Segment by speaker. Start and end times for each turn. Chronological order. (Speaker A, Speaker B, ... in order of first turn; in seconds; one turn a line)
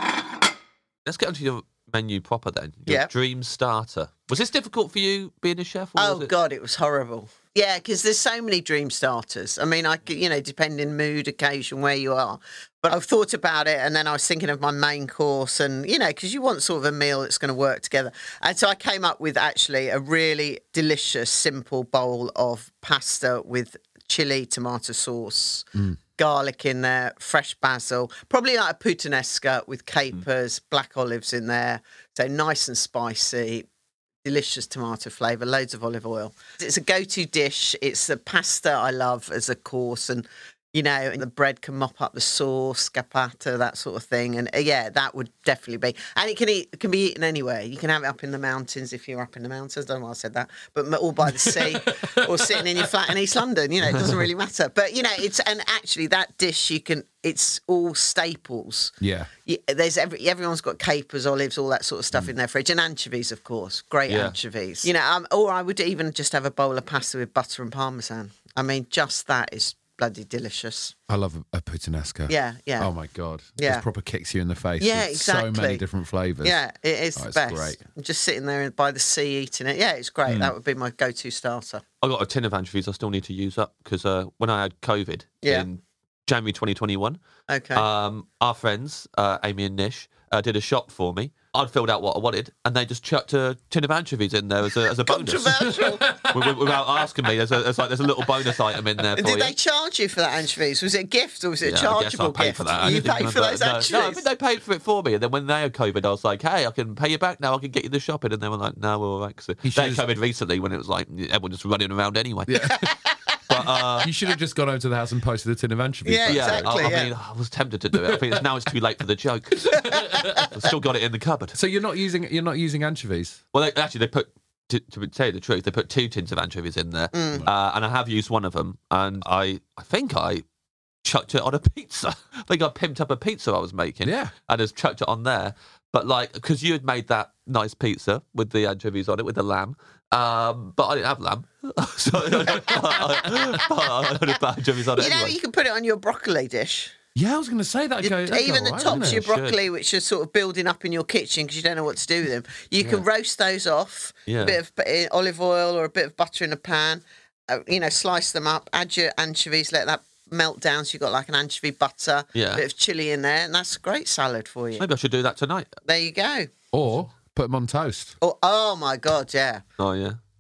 Speaker A: 1.1-6.3
Speaker B: 6.0-33.7
Speaker B: 34.2-70.9
Speaker C: 51.3-52.9
Speaker C: 59.0-59.3
Speaker A: 64.1-64.4
Speaker C: 71.1-76.6
Speaker B: 72.3-72.9
Speaker B: 73.6-73.8
Speaker B: 74.8-75.8
Speaker B: 76.4-81.8
Speaker C: 77.2-77.8
Speaker A: 82.0-87.2
Speaker B: 87.5-87.8
Speaker A: 87.8-99.5
Speaker B: 95.0-96.1
Speaker C: 95.7-97.0
Speaker B: 99.2-104.2
Speaker A: 101.7-112.7
Speaker C: 109.6-110.0
Speaker C: 112.5-113.0
Speaker A: 113.5-114.1
Speaker C: 114.0-117.1
Speaker B: 116.0-117.1
Speaker A: 116.3-121.6
Speaker C: 118.0-118.5
Speaker C: 119.7-120.5
Speaker B: 120.0-120.4
Speaker C: 121.5-123.4
Speaker A: 123.5-130.4
Speaker B: 127.1-127.5
Speaker A: 131.1-145.4
Speaker C: 134.0-134.3
Speaker C: 142.3-143.6
Speaker B: 145.0-146.9
Speaker C: 147.2-149.3
Speaker B: 148.0-164.8
Speaker A: 148.8-149.6
Speaker A: 154.3-154.6
Speaker A: 162.3-162.6
Speaker A: 164.8-165.7
Speaker B: 165.9-166.5
Speaker C: 166.7-168.2
Speaker B: 168.2-169.6
Speaker A: 169.8-170.2